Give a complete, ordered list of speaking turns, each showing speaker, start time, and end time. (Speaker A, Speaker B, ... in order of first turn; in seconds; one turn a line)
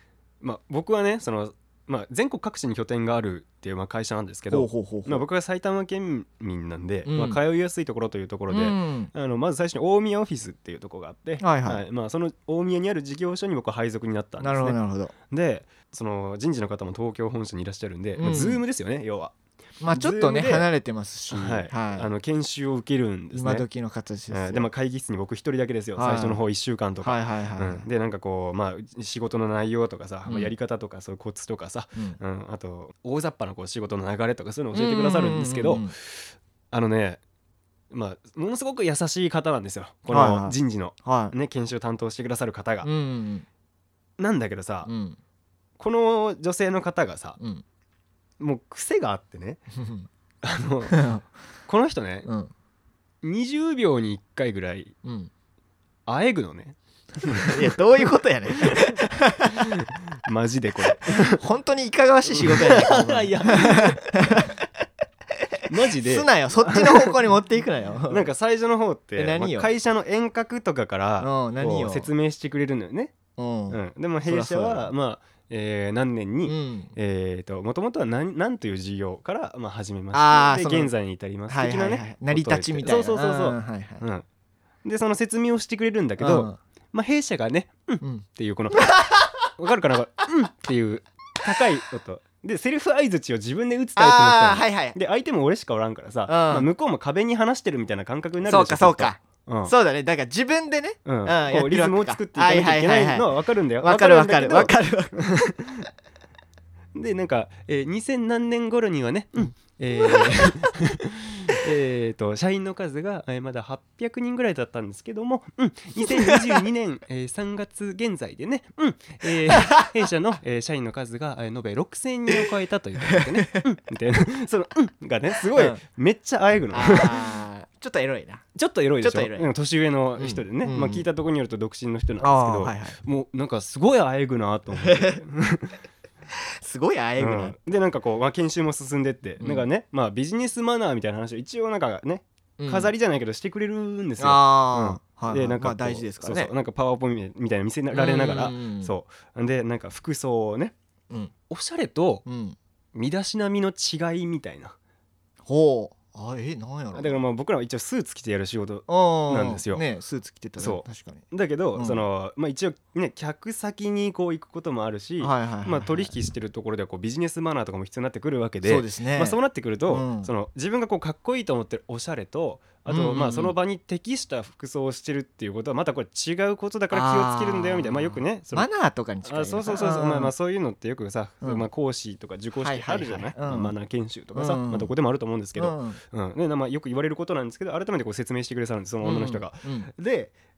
Speaker A: 0.4-14.8
Speaker B: 4.5-5.2
Speaker B: 7.0-7.4
Speaker B: 8.5-9.1
Speaker B: 11.4-11.8
Speaker B: 14.4-15.1
Speaker A: 15.3-19.3
Speaker B: 18.2-18.6
Speaker B: 19.8-22.1
Speaker A: 19.9-20.7
Speaker A: 21.3-23.6
Speaker B: 23.3-24.7
Speaker A: 24.3-37.2
Speaker B: 26.0-26.4
Speaker B: 27.0-27.9
Speaker B: 30.3-30.5
Speaker B: 34.7-35.9
Speaker A: 37.9-42.9
Speaker B: 40.1-41.3
Speaker B: 42.8-43.5
Speaker A: 44.2-44.9
Speaker B: 44.8-45.2
Speaker A: 45.8-47.4
Speaker B: 47.4-47.6
Speaker A: 48.4-49.6
Speaker B: 49.7-50.1
Speaker A: 50.4-51.0
Speaker B: 50.9-51.2
Speaker A: 51.7-52.3
Speaker B: 52.2-52.5
Speaker A: 53.2-54.9
Speaker B: 55.0-55.3
Speaker A: 56.0-59.0
Speaker B: 57.3-59.7
Speaker A: 59.5-61.4
Speaker B: 61.0-64.6
Speaker A: 62.3-64.4
Speaker B: 65.5-68.2
Speaker A: 65.7-67.2
Speaker A: 68.1-73.1
Speaker B: 69.2-69.7
Speaker B: 71.2-72.1
Speaker B: 73.4-74.9
Speaker A: 73.7-84.2
Speaker B: 76.5-76.9
Speaker B: 80.1-80.9
Speaker B: 81.5-84.0
Speaker A: 84.8-99.7
Speaker B: 86.2-86.6
Speaker B: 88.0-89.5
Speaker B: 94.0-95.0
Speaker B: 96.3-96.7
Speaker B: 98.4-105.2
Speaker A: 101.0-105.8
Speaker A: 106.9-127.4
Speaker B: 110.0-110.5
Speaker B: 116.1-116.6
Speaker B: 119.5-119.9
Speaker B: 123.0-123.7
Speaker B: 125.5-125.8
Speaker B: 126.7-128.4
Speaker A: 128.5-135.8
Speaker B: 129.0-129.5
Speaker B: 130.2-131.1
Speaker B: 132.2-133.0
Speaker B: 134.8-135.2
Speaker B: 136.3-137.6
Speaker A: 137.2-150.7
Speaker B: 139.4-139.7
Speaker B: 142.6-142.9
Speaker B: 144.2-146.5
Speaker B: 147.9-148.9
Speaker A: 151.5-152.2
Speaker B: 152.2-152.6
Speaker A: 152.9-154.8
Speaker B: 155.4-157.2
Speaker A: 156.9-159.8
Speaker B: 158.9-162.0
Speaker A: 160.6-178.7
Speaker B: 165.2-166.1
Speaker B: 168.6-170.3
Speaker B: 172.9-173.5
Speaker B: 176.9-180.3
Speaker A: 179.2-190.3
Speaker B: 182.6-183.7
Speaker B: 184.3-184.9
Speaker B: 185.6-186.0
Speaker B: 189.0-189.9